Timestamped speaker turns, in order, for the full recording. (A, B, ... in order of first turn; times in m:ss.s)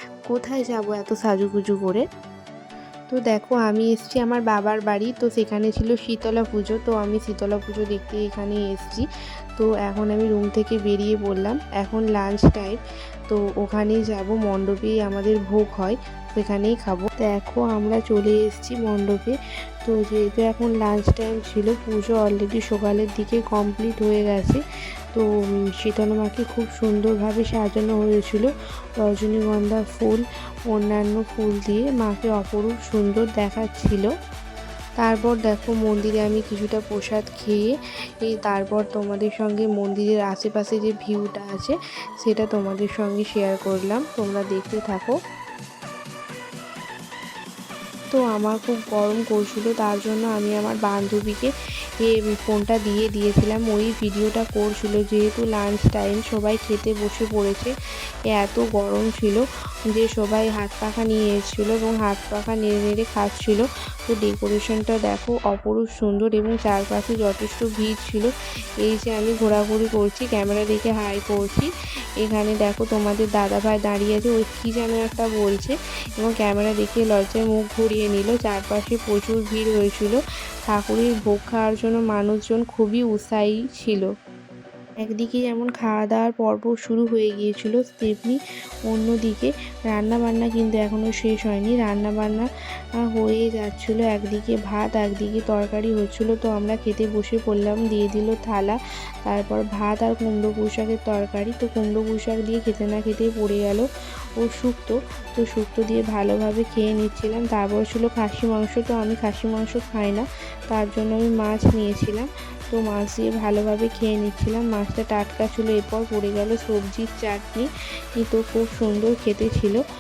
0:00.3-0:02.0 A
0:03.1-0:09.0 A
0:09.6-0:12.8 A
0:13.3-0:19.3 A
0:19.8-0:24.6 A
0:25.8-0:28.5 A
0:29.0-0:34.1 A
0:35.0-0:37.7 A
0:38.2-0:45.2 A
0:48.1-0:57.7 A
0:58.3-1:08.3 A
1:08.8-1:11.7 A
1:12.2-1:24.1 A
1:25.0-1:32.4 A
1:33.1-1:43.9 A
1:44.4-1:57.7 A
1:58.2-1:59.8 A